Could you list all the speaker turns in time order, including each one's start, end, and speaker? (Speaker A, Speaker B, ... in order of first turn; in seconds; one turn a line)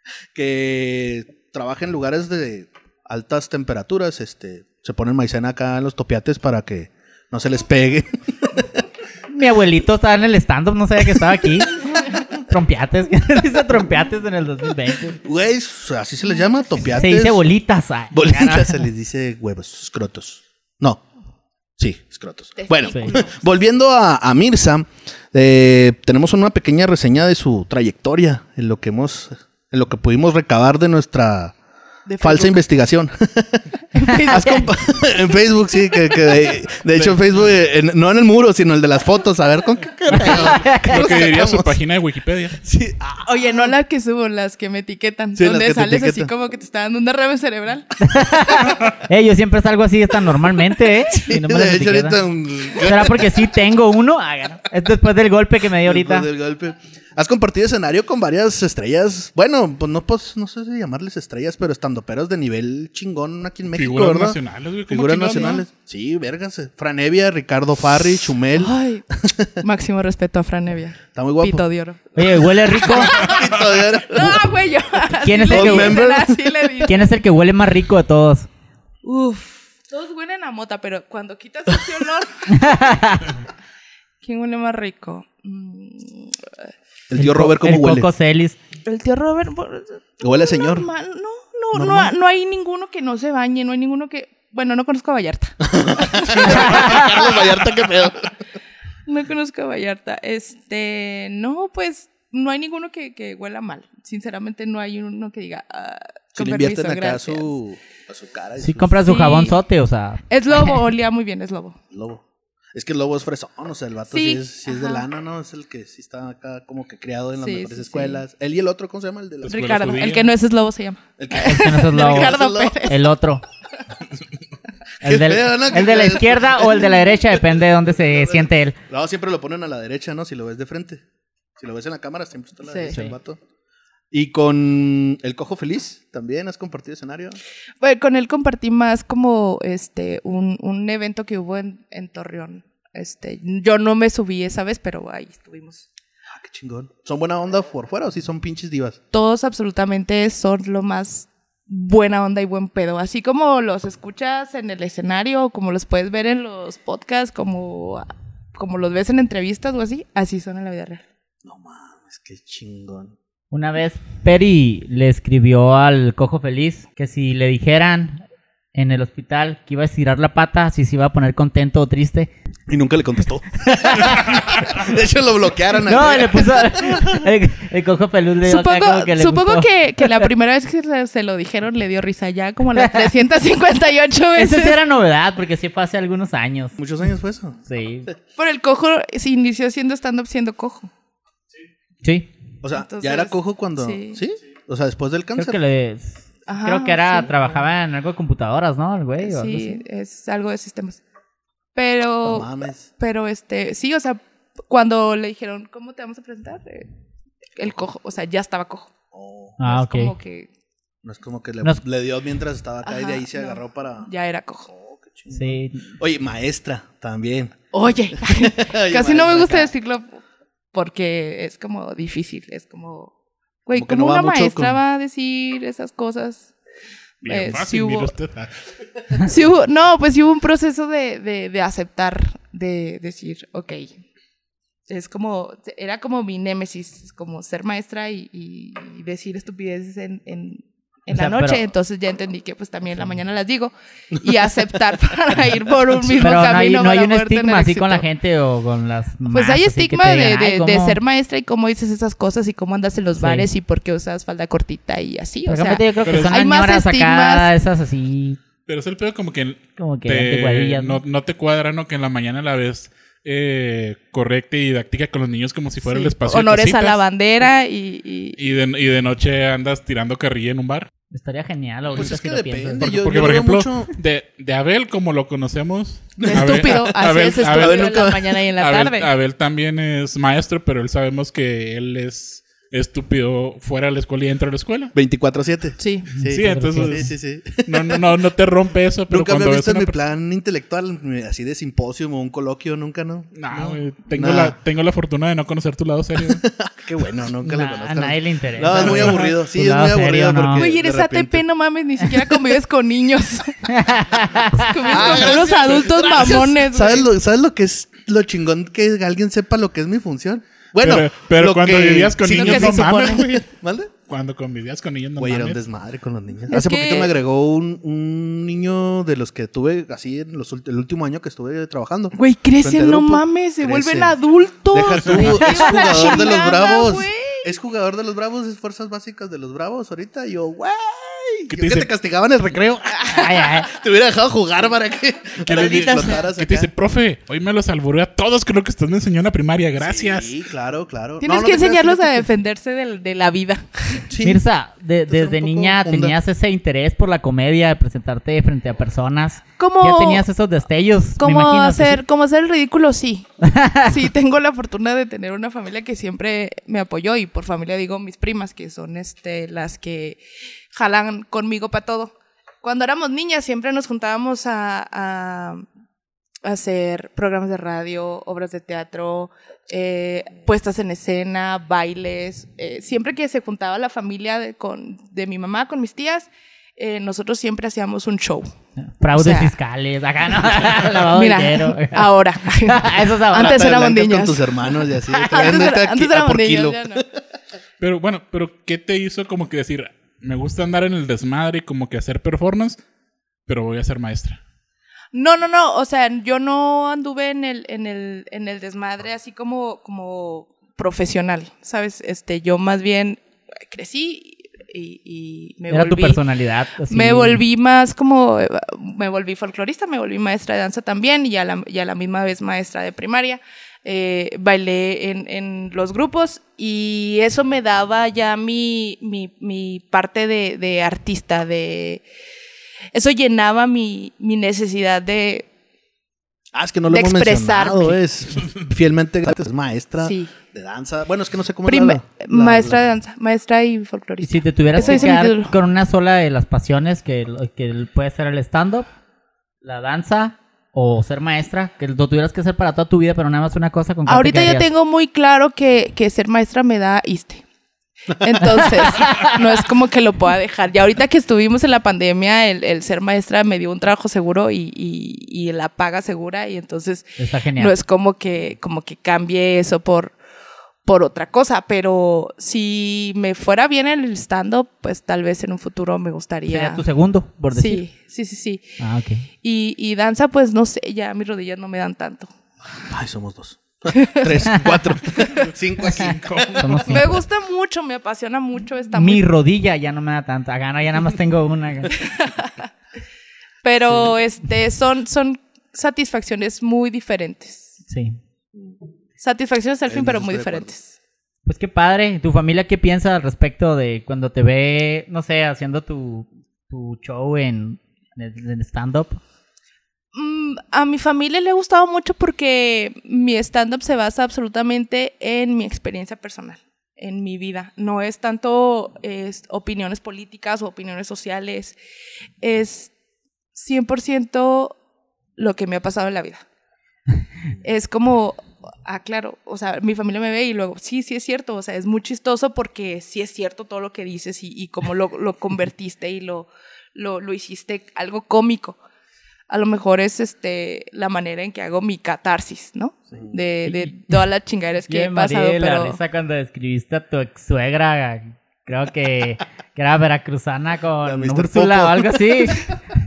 Speaker A: 0.3-8.7
Speaker B: 9.3-15.2
Speaker A: 15.2-17.5
Speaker B: 16.9-18.8
Speaker A: 18.1-21.0
Speaker A: 21.8-31.6
Speaker C: 22.6-23.4
Speaker C: 32.1-32.6
Speaker A: 32.2-33.7
Speaker C: 34.0-34.8
Speaker A: 34.3-41.8
Speaker B: 40.1-41.0
Speaker D: 40.1-42.6
Speaker A: 42.6-43.4
Speaker C: 43.2-47.9
Speaker A: 45.4-46.3
Speaker B: 48.0-52.2
Speaker A: 51.1-53.5
Speaker B: 52.7-56.3
Speaker A: 55.8-69.5
Speaker D: 63.7-65.6
Speaker C: 68.5-69.1
Speaker C: 69.6-72.1
Speaker A: 71.2-71.6
Speaker B: 72.2-73.1
Speaker A: 72.7-74.5
Speaker C: 72.8-77.1
Speaker B: 75.2-76.0
Speaker A: 75.5-76.5
Speaker B: 76.8-78.5
Speaker C: 79.0-83.0
Speaker B: 82.5-83.4
Speaker C: 84.2-86.5
Speaker A: 87.1-88.1
Speaker B: 87.2-88.6
Speaker C: 88.8-97.2
Speaker A: 90.2-90.9
Speaker A: 91.7-92.1
Speaker A: 95.7-98.2
Speaker C: 99.1-107.5
Speaker A: 106.3-109.0
Speaker B: 108.6-110.2
Speaker C: 109.0-109.6
Speaker C: 110.3-111.8
Speaker A: 111.9-112.2
Speaker A: 112.7-119.7
Speaker C: 114.1-115.1
Speaker C: 117.4-118.2
Speaker D: 119.4-120.3
Speaker C: 119.5-123.1
Speaker A: 121.2-122.9
Speaker B: 121.3-123.4
Speaker B: 125.0-128.8
Speaker A: 125.0-131.0
Speaker A: 131.6-133.4
Speaker C: 132.6-133.0
Speaker B: 132.9-133.1
Speaker A: 134.1-137.4
Speaker C: 137.8-145.9
Speaker A: 146.3-149.0
Speaker C: 149.1-161.0
Speaker A: 161.4-163.2
Speaker B: 163.5-168.2
Speaker B: 168.8-172.3
Speaker A: 172.7-177.3
Speaker B: 173.8-174.3
Speaker B: 175.9-180.3
Speaker C: 178.4-184.8
Speaker B: 184.4-186.8
Speaker A: 186.8-187.6
Speaker B: 187.7-188.1
Speaker C: 188.4-190.9
Speaker B: 192.0-192.3
Speaker A: 192.6-195.6
Speaker C: 192.7-194.2
Speaker B: 195.4-199.8
Speaker C: 196.5-197.6
Speaker C: 199.2-201.0
Speaker C: 201.8-206.9
Speaker A: 202.2-202.9
Speaker C: 207.6-208.9
Speaker A: 209.1-209.6
Speaker B: 209.6-210.1
Speaker C: 209.6-210.5
Speaker A: 211.0-214.1
Speaker C: 212.8-214.7
Speaker A: 214.7-217.6
Speaker B: 215.3-215.9
Speaker C: 217.7-220.1
Speaker A: 218.2-219.7
Speaker C: 220.7-223.1
Speaker C: 223.7-226.5
Speaker A: 223.8-224.8
Speaker C: 227.2-228.1
Speaker D: 227.2-228.5
Speaker C: 229.2-234.0
Speaker C: 234.9-248.1
Speaker B: 241.1-241.6
Speaker B: 246.2-251.0
Speaker C: 249.3-257.5
Speaker B: 253.2-253.5
Speaker B: 255.5-258.4
Speaker D: 256.1-256.4
Speaker D: 258.7-267.0
Speaker B: 259.8-261.0
Speaker C: 265.8-268.4
Speaker D: 268.4-270.9
Speaker B: 271.1-272.9
Speaker A: 271.9-273.9
Speaker D: 272.8-278.0
Speaker A: 276.2-278.4
Speaker C: 276.2-279.1
Speaker D: 278.6-284.9
Speaker A: 284.9-288.1
Speaker C: 285.8-286.1
Speaker B: 286.2-287.1
Speaker D: 286.2-290.0
Speaker A: 289.1-293.4
Speaker D: 293.3-296.4
Speaker A: 294.1-294.6
Speaker A: 296.2-301.4
Speaker B: 297.4-300.7
Speaker D: 298.7-299.3
Speaker C: 300.6-303.7
Speaker B: 303.7-304.7
Speaker C: 304.5-307.1
Speaker A: 304.9-313.9
Speaker D: 310.8-313.5
Speaker C: 312.3-313.2
Speaker D: 314.1-315.6
Speaker A: 315.2-324.2
Speaker C: 316.5-317.1
Speaker C: 322.1-327.5
Speaker A: 324.7-336.7
Speaker D: 331.5-331.9
Speaker C: 332.9-333.5
Speaker B: 333.1-333.7
Speaker D: 335.4-340.3
Speaker C: 335.6-336.2
Speaker A: 339.8-342.3
Speaker C: 341.2-344.1
Speaker A: 344.1-344.4
Speaker B: 344.2-352.0
Speaker A: 345.1-346.1
Speaker C: 349.6-350.2
Speaker C: 351.2-353.3
Speaker B: 353.4-353.9
Speaker C: 353.8-360.2
Speaker C: 360.7-365.6
Speaker C: 366.4-378.5
Speaker B: 378.8-382.1
Speaker C: 379.1-379.5
Speaker C: 381.1-387.0
Speaker B: 382.7-383.7
Speaker A: 383.3-387.1
Speaker D: 387.8-392.8
Speaker D: 393.5-394.4
Speaker C: 395.1-406.2
Speaker B: 405.7-407.4
Speaker C: 406.9-422.0
Speaker C: 422.9-425.5
Speaker A: 426.5-432.8
Speaker C: 426.9-428.0
Speaker C: 430.0-430.3
Speaker C: 431.7-435.5
Speaker B: 434.2-438.9
Speaker B: 439.6-444.7
Speaker C: 444.1-447.4
Speaker C: 448.1-460.1
Speaker B: 448.8-449.4
Speaker B: 457.2-457.7
Speaker C: 460.9-466.8
Speaker B: 466.5-467.8
Speaker C: 467.5-468.8
Speaker B: 468.8-469.3
Speaker C: 469.4-472.3
Speaker A: 472.9-477.0
Speaker C: 473.9-474.4
Speaker B: 475.9-477.1
Speaker D: 476.1-476.6
Speaker C: 476.9-479.3
Speaker B: 478.9-482.0
Speaker C: 482.0-482.6
Speaker C: 483.6-487.8
Speaker B: 487.9-488.2
Speaker C: 489.2-490.9
Speaker A: 489.9-490.7
Speaker B: 491.5-499.2
Speaker C: 500.1-511.8
Speaker C: 512.4-512.9
Speaker C: 513.5-514.8
Speaker C: 515.4-516.4
Speaker C: 517.6-528.8
Speaker C: 529.5-536.0
Speaker B: 534.9-542.7
Speaker A: 541.0-542.6